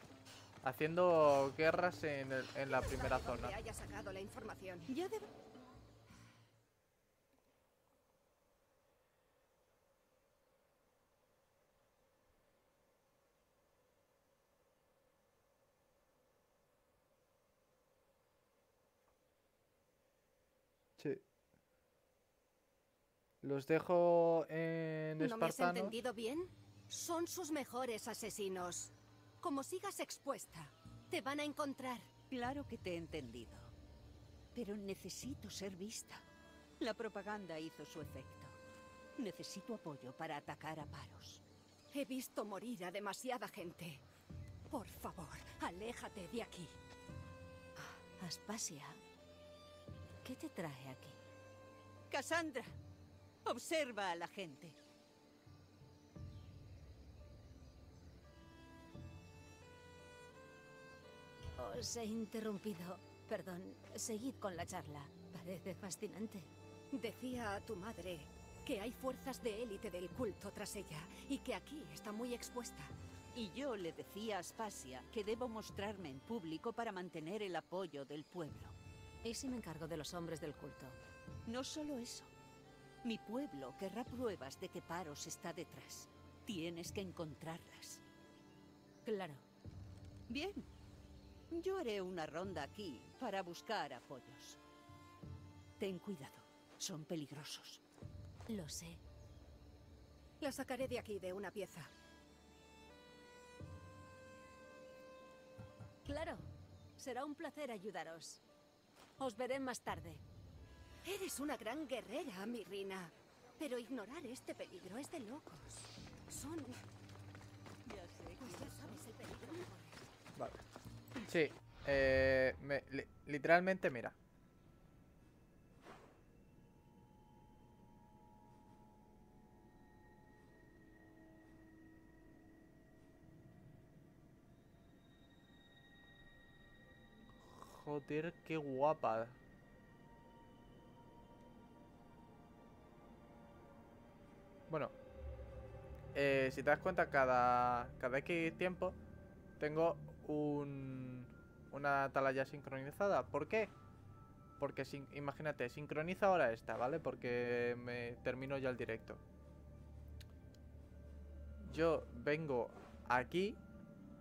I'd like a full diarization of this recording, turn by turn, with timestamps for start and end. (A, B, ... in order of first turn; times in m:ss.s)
0:00.6-0:03.6 A
0:02.7-0:04.9 B
0:04.9-0:05.3 C
0:21.0-0:21.2 A
0:23.4-0:25.9 A
0:25.2-0:32.1 B
0:32.3-0:33.7 C
0:34.5-0:36.2 C
0:36.8-0:38.6 C
0:39.2-0:41.4 C
0:41.9-0:44.0 B
0:44.7-0:46.7 B
0:47.8-0:49.0 D
0:50.2-0:51.2 D
0:52.1-0:52.7 C
0:53.4-0:54.7 C
1:01.6-1:06.5 D
1:06.9-1:12.9 B
1:13.3-1:18.7 C
1:19.2-1:21.0 D
1:21.5-1:22.3 C
1:23.0-1:28.0 C
1:29.0-1:29.4 D
1:30.3-1:30.7 C
1:31.5-1:34.6 C
1:35.8-1:37.8 C
1:38.5-1:39.0 D
1:40.4-1:41.9 B
1:46.0-1:46.4 D
1:47.0-1:48.4 D
1:49.2-1:50.2 D
1:51.0-1:56.8 B
1:57.8-1:59.1 C
1:58.4-2:00.1 B
2:00.4-2:00.6 A
2:01.2-2:04.2 A
2:17.4-2:19.4 A
2:24.7-2:24.9 A
2:26.1-2:29.0 A
2:29.6-2:33.7 A
2:34.6-2:39.2 A
2:41.6-2:43.6 A